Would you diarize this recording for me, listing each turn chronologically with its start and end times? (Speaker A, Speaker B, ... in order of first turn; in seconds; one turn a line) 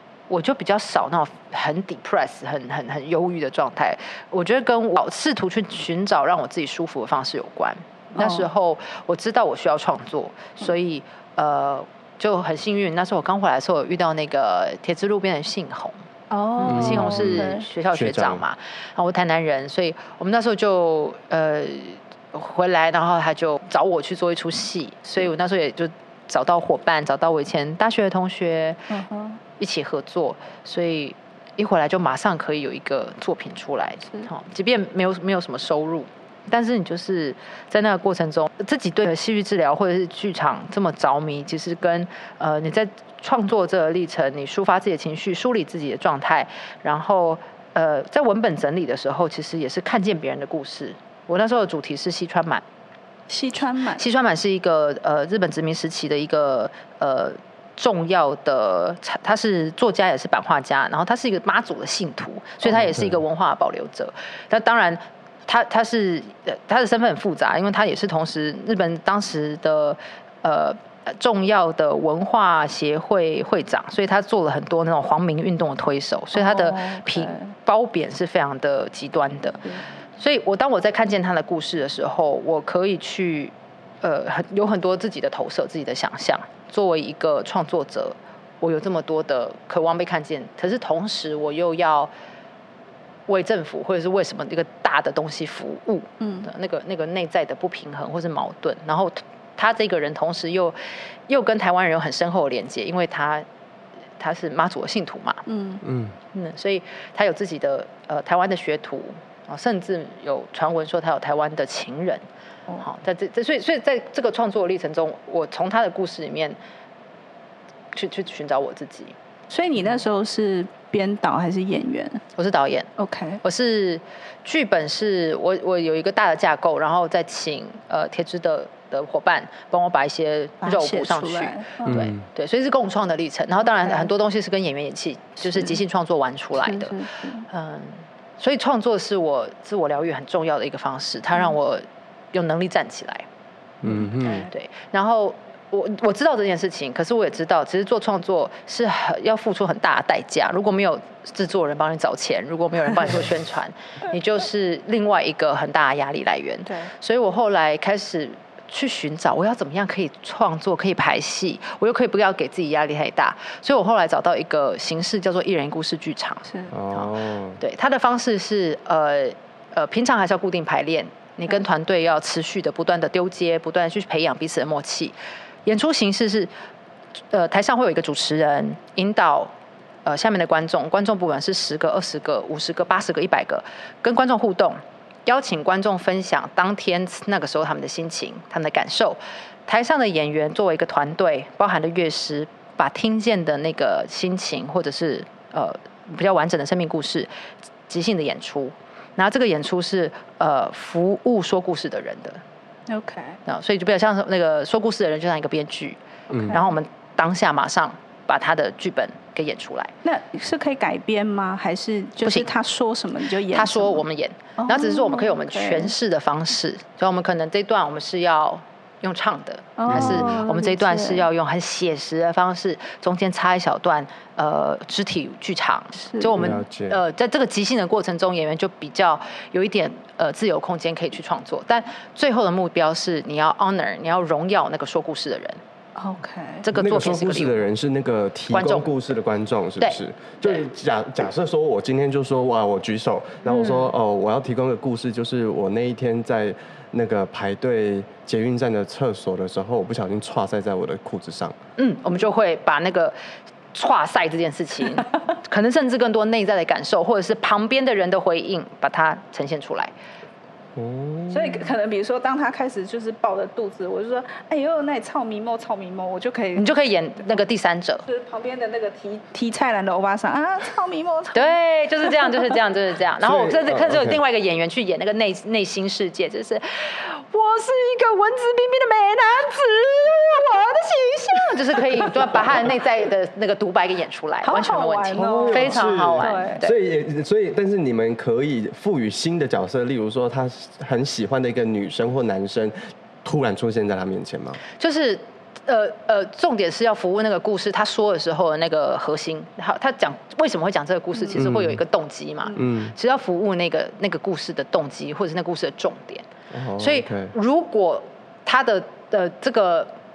Speaker A: 0.3-15.9
Speaker B: 8.2-8.4
Speaker B: 16.3-17.6
Speaker A: 16.6-28.9
Speaker C: 16.7-18.4
Speaker B: 28.9-29.4
Speaker A: 29.6-52.6
Speaker B: 53.3-54.0
Speaker A: 54.0-92.1
Speaker C: 62.8-63.1
Speaker B: 76.3-77.5
Speaker A: 93.3-100.8
Speaker B: 96.2-96.5
Speaker A: 101.3-103.5
Speaker A: 104.2-105.4
Speaker B: 105.5-105.8
Speaker C: 105.8-106.2
Speaker A: 106.3-112.2
Speaker A: 112.8-116.6
Speaker A: 117.9-119.1
Speaker B: 119.5-122.2
Speaker A: 122.4-122.9
Speaker B: 123.0-123.4
Speaker A: 123.4-143.2
Speaker B: 130.6-132.0
Speaker C: 131.9-132.2
Speaker B: 136.6-137.5
Speaker C: 143.8-144.4
Speaker A: 144.2-175.1
Speaker C: 166.7-167.6
Speaker A: 175.7-176.5
Speaker A: 177.3-179.5
Speaker A: 180.1-197.3
Speaker A: 197.9-202.4
Speaker B: 202.9-203.4
Speaker A: 203.4-206.0
Speaker C: 206.3-206.6
Speaker B: 206.3-206.6
Speaker A: 206.5-209.9
Speaker B: 210.0-214.0
Speaker A: 212.2-212.5
Speaker A: 213.5-235.6
Speaker B: 214.6-215.9
Speaker B: 219.8-221.2
Speaker C: 219.9-220.4
Speaker B: 226.0-226.3
Speaker C: 226.4-227.0
Speaker B: 235.9-236.7
Speaker A: 236.6-237.7
Speaker C: 236.8-251.6
Speaker A: 238.5-238.9
Speaker A: 239.8-240.6
Speaker A: 243.5-243.8
Speaker A: 251.8-253.1
Speaker A: 253.7-259.9
Speaker C: 260.8-261.6
Speaker B: 261.3-266.7
Speaker A: 266.6-268.1
Speaker B: 268.1-271.6
Speaker A: 271.3-286.7
Speaker B: 272.1-272.6
Speaker C: 273.2-274.2
Speaker B: 284.4-286.6
Speaker C: 285.1-294.6
Speaker A: 294.8-309.9
Speaker C: 301.4-301.8
Speaker C: 302.6-302.9
Speaker C: 306.5-307.3